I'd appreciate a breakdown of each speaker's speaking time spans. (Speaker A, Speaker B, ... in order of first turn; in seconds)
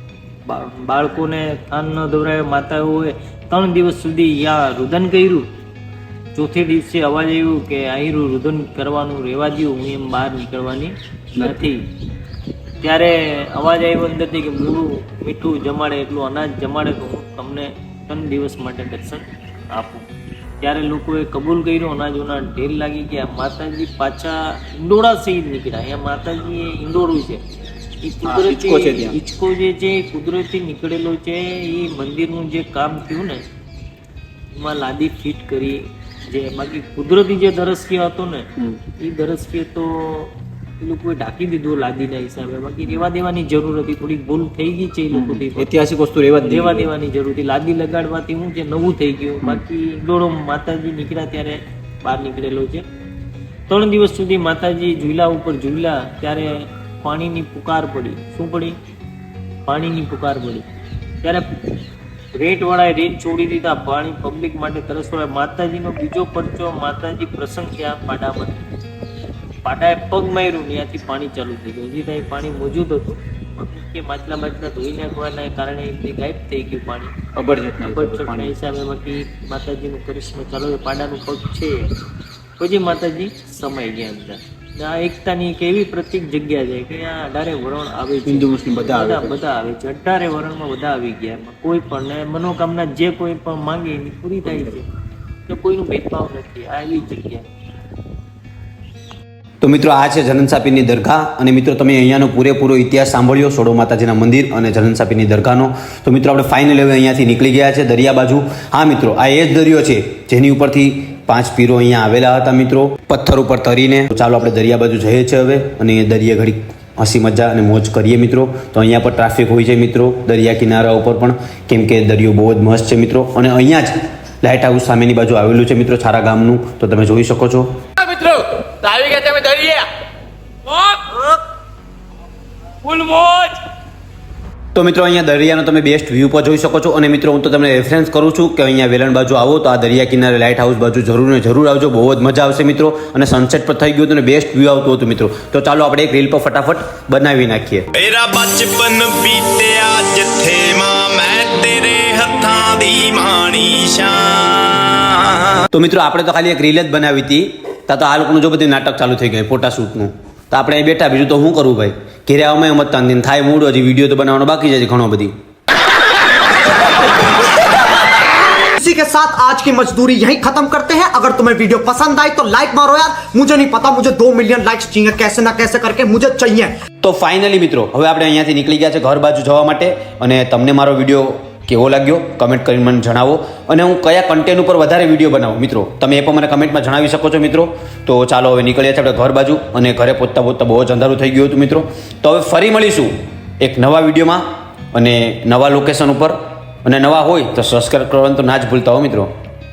Speaker A: 0.5-5.5, 6.3-11.9, 12.8-20.1, 20.6-27.4, 28.0-33.5, 34.5-45.7, 46.4-52.8, 53.7-58.8, 59.7-60.7, 61.2-61.5, 62.4-68.7, 69.7-77.1, 77.9-81.9, 82.6-94.9, 95.5-97.5
Speaker B: 28.2-29.2, 45.1-46.8, 77.4-78.5, 88.3-89.3, 99.6-127.8, 134.8-147.9, 155.7-165.3, 177.0-194.4, 194.9-199.3
Speaker C: 128.0-129.9, 130.7-131.3, 132.9-133.4
Speaker D: 147.9-155.2
Speaker E: 168.8-176.7